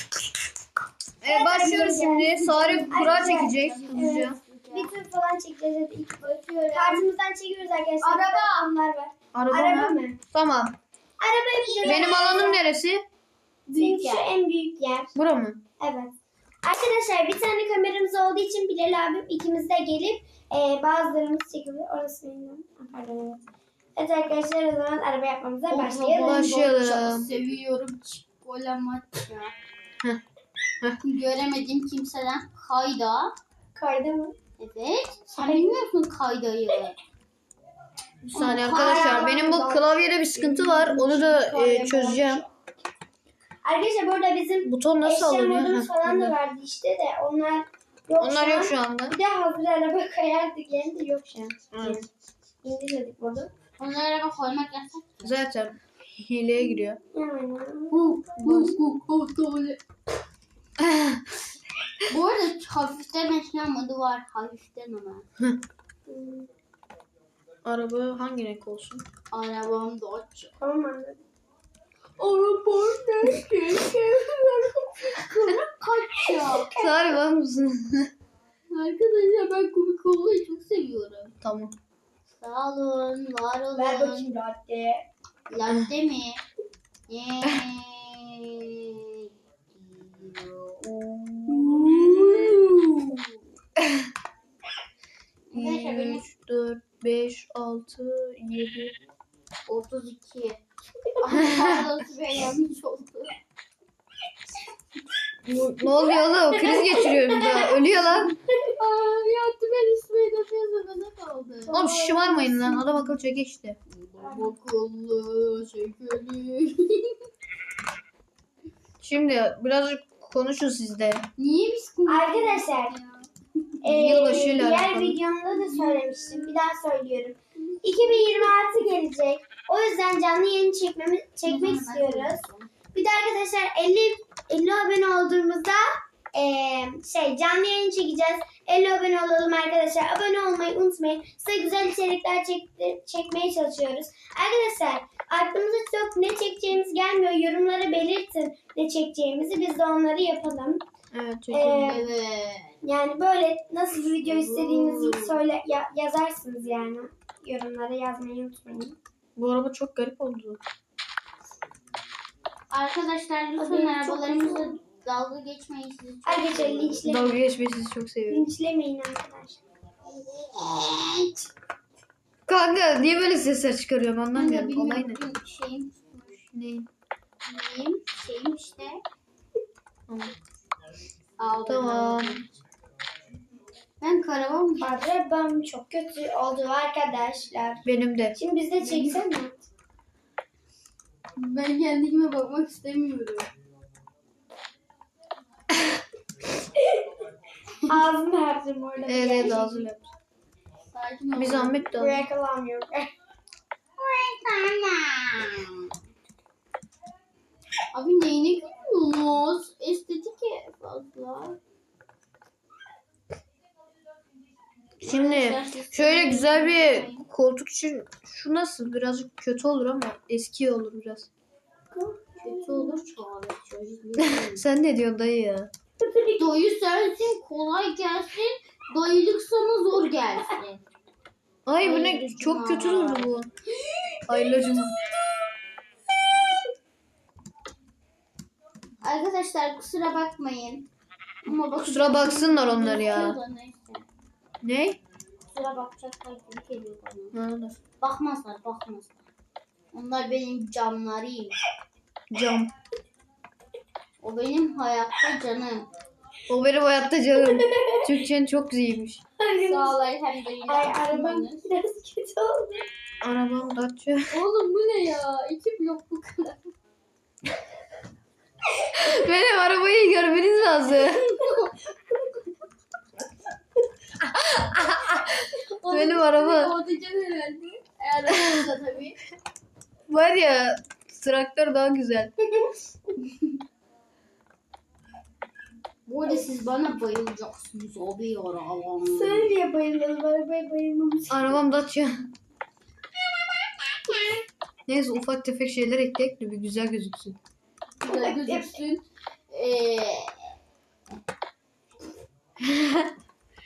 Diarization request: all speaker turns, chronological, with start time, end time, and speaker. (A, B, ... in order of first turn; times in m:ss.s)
0:01.2-0:04.4 A
0:01.2-0:10.2 B
0:02.2-0:04.9 C
0:06.3-0:07.0 C
0:08.0-0:08.7 C
0:09.3-0:10.8 A
0:11.2-0:12.6 B
0:11.8-0:13.0 A
0:13.7-0:14.3 C
0:13.8-0:15.1 B
0:15.2-0:15.6 A
0:15.8-0:23.4 B
0:23.9-0:26.4 B
0:25.7-0:29.5 C
0:26.1-0:27.3 A
0:31.0-0:33.3 C
0:33.7-0:34.3 B
0:34.6-0:37.0 C
0:35.4-0:35.8 B
0:38.3-0:42.4 A
0:38.3-0:39.4 C
0:38.5-0:41.1 B
0:40.8-0:42.4 C
0:43.6-0:52.1 B
0:44.6-0:46.4 A
0:48.2-0:49.2 A
0:51.7-0:52.0 A
0:52.6-0:53.5 B
0:53.8-0:55.3 C
0:55.2-0:57.0 A
0:57.1-0:58.6 B
0:57.9-0:59.8 C
0:58.3-0:58.8 A
1:00.8-1:01.2 A
1:02.1-1:05.2 C
1:06.1-1:06.5 B
1:07.6-1:09.0 A
1:09.3-1:10.5 C
1:10.6-1:11.2 B
1:12.2-1:16.7 C
1:16.2-1:17.0 B
1:16.7-1:18.1 A
1:18.7-1:21.3 C
1:21.4-1:21.7 A
1:22.4-1:24.3 C
1:23.7-1:25.0 B
1:25.5-1:26.4 C
1:27.1-1:33.4 C
1:31.4-1:32.1 A
1:33.8-1:34.1 A
1:35.5-1:36.2 C
1:35.5-1:38.9 A
1:39.7-1:40.6 C
1:41.2-1:43.4 C
1:41.3-1:41.8 A
1:45.4-1:48.3 A
1:46.0-1:48.2 C
1:48.7-1:53.1 C
1:51.7-1:53.8 A
1:53.9-1:57.2 C
1:54.2-1:54.5 B
1:59.0-2:01.3 A
2:01.4-2:03.6 C
2:02.0-2:03.0 B
2:03.8-2:30.8 B
2:03.9-2:05.2 A
2:05.5-2:06.6 C
2:07.7-2:08.5 C
2:11.4-2:12.7 C
2:31.1-2:32.0 A
2:31.5-2:32.0 B
2:31.8-2:32.8 C
2:32.8-2:39.0 B
2:34.2-2:35.4 C
2:39.4-2:40.6 A
2:42.7-2:47.0 C
2:43.6-2:44.8 B
2:46.2-2:47.4 B
2:47.0-2:48.5 A
2:48.3-2:49.6 B
2:50.3-2:51.5 C
2:52.5-2:55.2 A
2:54.3-2:56.4 C
2:56.5-2:56.9 A
2:57.4-2:59.0 C
3:00.1-3:00.3 A
3:01.4-3:02.6 C
3:01.6-3:02.4 A
3:04.0-3:05.0 C
3:04.8-3:09.6 B
3:07.8-3:08.4 A
3:08.8-3:09.2 C
3:11.4-3:13.5 C
3:17.8-3:19.9 B
3:19.0-3:20.1 A
3:20.9-3:21.9 C
3:21.4-3:22.2 A
3:21.9-3:23.1 B
3:24.0-3:25.9 C
3:27.9-3:31.6 C
3:35.0-3:41.3 A
3:35.0-3:37.2 C
3:41.9-3:43.1 B
3:42.4-3:44.6 C
3:44.2-3:45.7 A
3:46.0-3:46.4 B
3:46.3-3:50.8 C
3:51.6-3:53.5 A
3:51.8-3:53.3 C
3:53.8-3:54.8 C
3:54.3-3:54.9 A
3:59.0-4:00.8 C
4:01.4-4:04.0 C
4:01.8-4:03.4 A
4:04.6-4:05.0 A
4:05.5-4:07.3 C
4:07.3-4:07.8 A
4:08.0-4:09.2 C
4:09.9-4:11.6 C
4:12.3-4:12.7 A
4:14.2-4:15.9 C
4:16.5-4:19.2 A
4:17.3-4:18.1 B
4:19.4-4:20.0 B
4:19.6-4:21.6 C
4:20.6-4:22.8 B
4:23.2-4:24.4 A
4:24.3-4:26.7 C
4:28.9-4:31.2 A
4:30.9-4:32.2 C
4:34.2-4:36.8 A
4:35.5-4:39.2 C
4:38.3-4:38.6 A
4:40.1-4:42.3 A
4:43.2-4:43.5 C
4:46.0-4:49.5 C
4:49.0-4:51.6 B
4:51.3-4:52.2 A
4:54.9-4:57.4 A
4:58.0-5:00.3 C
4:58.0-4:58.8 B
5:02.6-5:03.1 A